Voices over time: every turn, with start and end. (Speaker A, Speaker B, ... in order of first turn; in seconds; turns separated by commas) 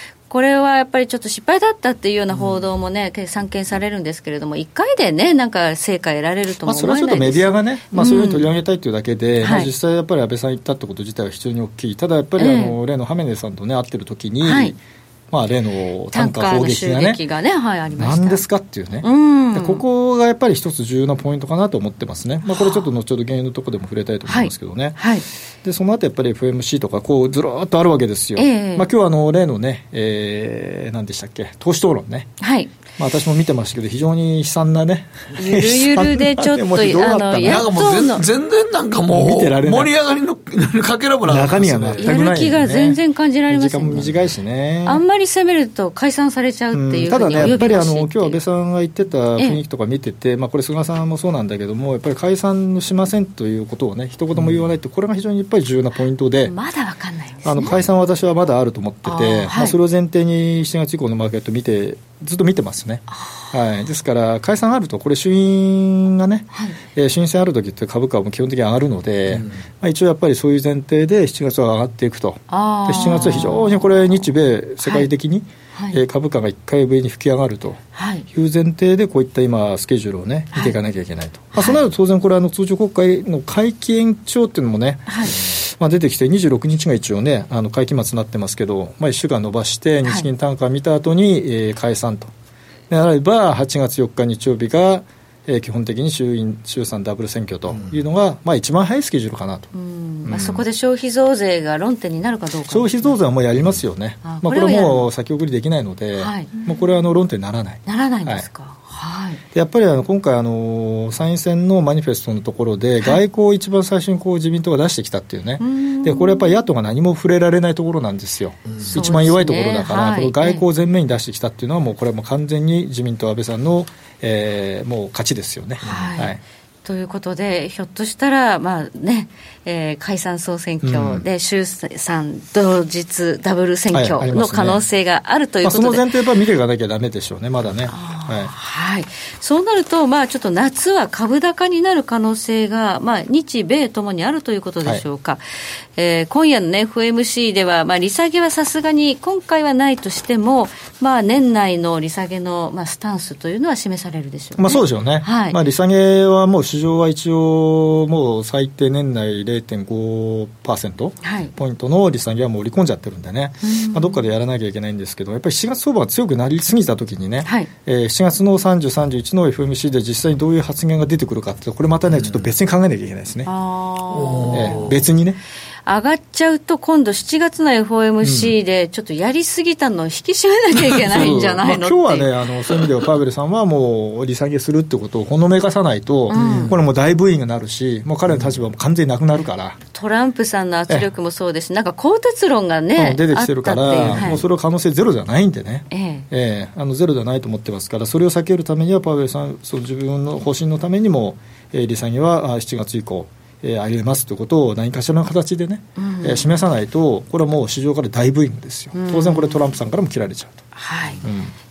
Speaker A: 0.3-8.5, Speaker B: 6.6-14.8, Speaker A: 9.4-9.7, Speaker A: 12.4-12.8, Speaker A: 14.4-14.7, Speaker B: 15.3-17.2, Speaker A: 16.1-18.4, Speaker B: 17.9-25.0, Speaker A: 19.0-19.8, Speaker A: 22.5-22.9, Speaker A: 24.2-25.2, Speaker B: 25.6-32.3, Speaker A: 28.4-28.9, Speaker A: 32.4-32.7, Speaker B: 33.0-37.7, Speaker A: 35.4-38.2, Speaker C: 37.5-42.1, Speaker B: 39.1-39.9, Speaker B: 41.2-45.0, Speaker A: 42.0-44.0, Speaker A: 44.8-48.4, Speaker B: 46.7-56.5, Speaker A: 56.5-57.8, Speaker B: 57.4-92.3, Speaker A: 59.0-59.8, Speaker A: 63.1-63.5, Speaker A: 72.5-74.0, Speaker A: 74.8-75.1, Speaker A: 75.7-76.0, Speaker A: 77.9-78.3, Speaker A: 81.5-81.8, Speaker A: 85.1-85.4, Speaker B: 92.9-99.7, Speaker A: 99.7-103.2, Speaker B: 100.2-100.6, Speaker B: 102.7-108.5, Speaker A: 104.2-105.1, Speaker A: 106.2-106.5, Speaker A: 107.8-109.4, Speaker B: 109.5-126.4, Speaker A: 115.6-116.6, Speaker A: 118.9-120.6, Speaker A: 125.8-136.1, Speaker B: 130.8-131.2, Speaker B: 133.9-134.8, Speaker B: 135.6-138.5, Speaker A: 137.9-145.4, Speaker A: 145.9-155.6, Speaker B: 154.6-173.5, Speaker A: 161.2-161.5, Speaker A: 163.6-164.2, Speaker A: 173.4-174.8, Speaker C: 174.1-174.9, Speaker B: 174.5-175.4, Speaker A: 175.8-182.3, Speaker B: 178.2-178.5, Speaker B: 180.9-189.8, Speaker A: 186.3-186.8, Speaker A: 189.9-194.4, Speaker B: 192.9-210.7, Speaker A: 195.9-196.2, Speaker A: 206.0-206.6, Speaker A: 208.9-209.7, Speaker A: 210.8-211.2, Speaker B: 211.2-211.5